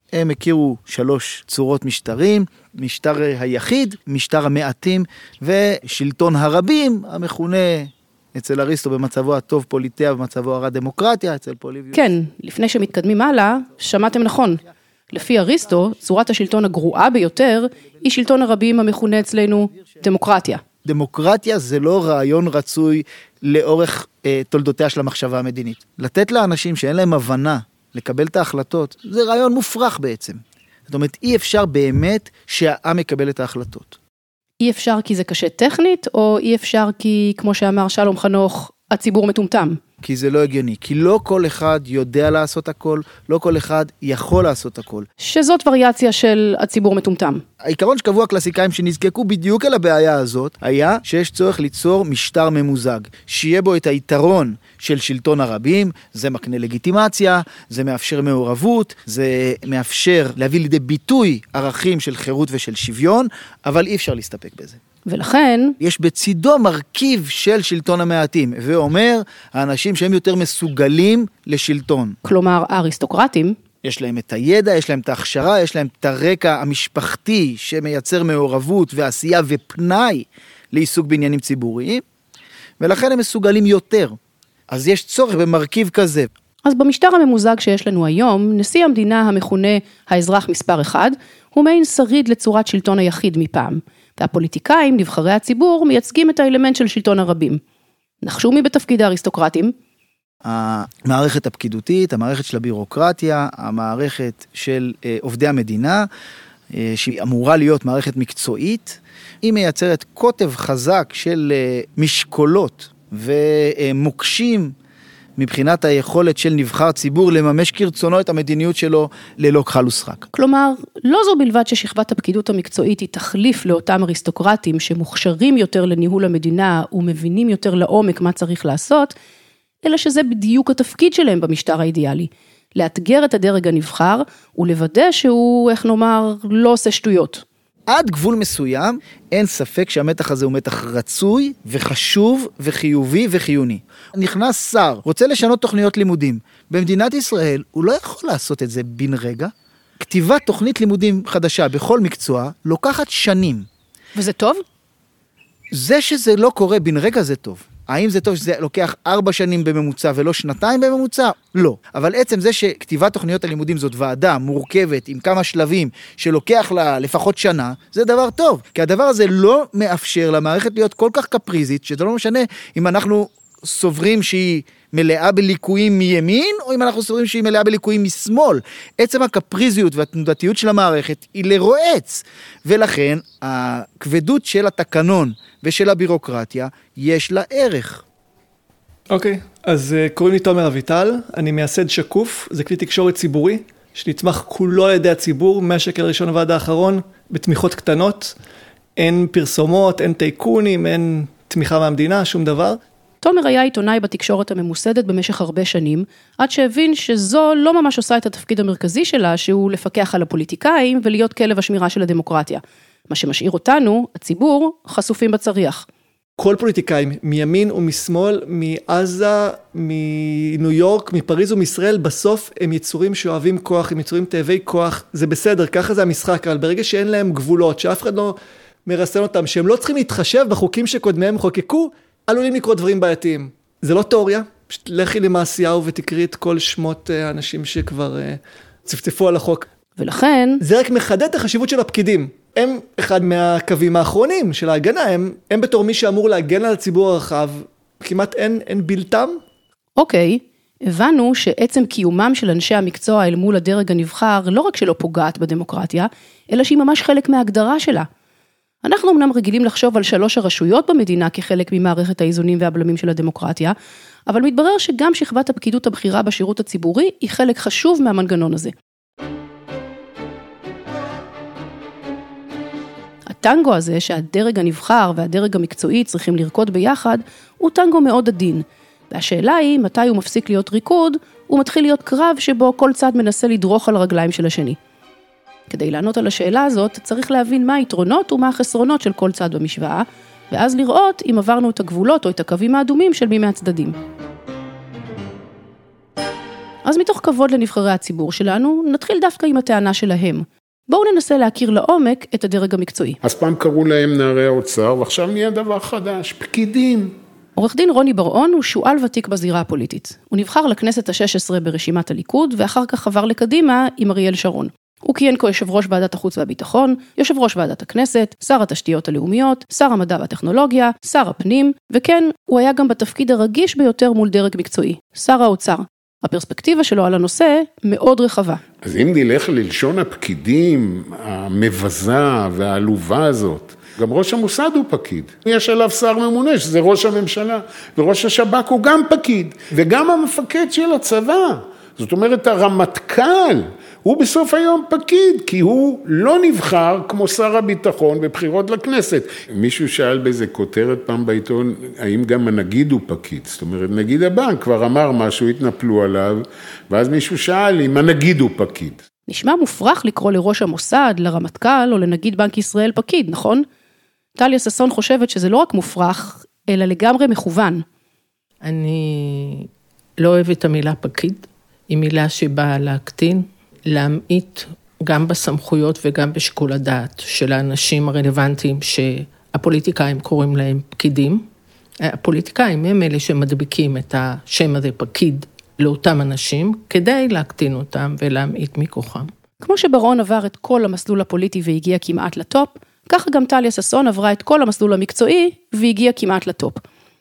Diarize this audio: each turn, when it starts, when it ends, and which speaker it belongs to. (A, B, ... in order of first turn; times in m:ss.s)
0:00.1-0:12.0 A
0:11.9-0:20.6 B
0:20.8-0:34.0 A
0:34.6-0:39.8 B
0:40.0-0:45.0 A
0:45.2-0:47.4 B
0:47.6-1:04.8 A
1:05.0-1:05.8 B
1:05.8-1:12.2 A
1:12.2-1:13.6 B
1:13.8-1:22.0 A
1:22.8-1:24.2 A
1:24.7-1:26.3 A
1:26.6-1:37.6 B
1:38.2-1:39.7 B
1:40.4-1:46.1 A
1:46.7-1:54.7 A
1:55.4-2:00.2 A
2:00.3-2:09.1 B
2:09.8-2:17.4 B
2:17.9-2:33.7 A
2:34.2-2:34.6 B
2:35.7-3:08.0 A
3:09.1-3:18.3 C
3:19.0-3:22.8 C
3:23.2-3:35.8 B
3:36.4-3:59.6 C
4:00.0-4:00.6 B
4:00.6-4:09.4 C
4:10.0-4:18.1 B
4:18.8-4:23.7 B
4:24.3-4:28.7 B
4:33.3-4:44.8 B
4:45.7-4:53.9 B
4:56.8-5:03.2 B
5:03.2-5:07.1 D
5:07.6-5:28.6 B
5:28.8-5:59.0 D
5:59.3-6:03.6 B
6:04.4-6:07.8 B
6:08.6-6:21.4 E
6:22.0-6:29.3 E
6:29.6-6:36.8 B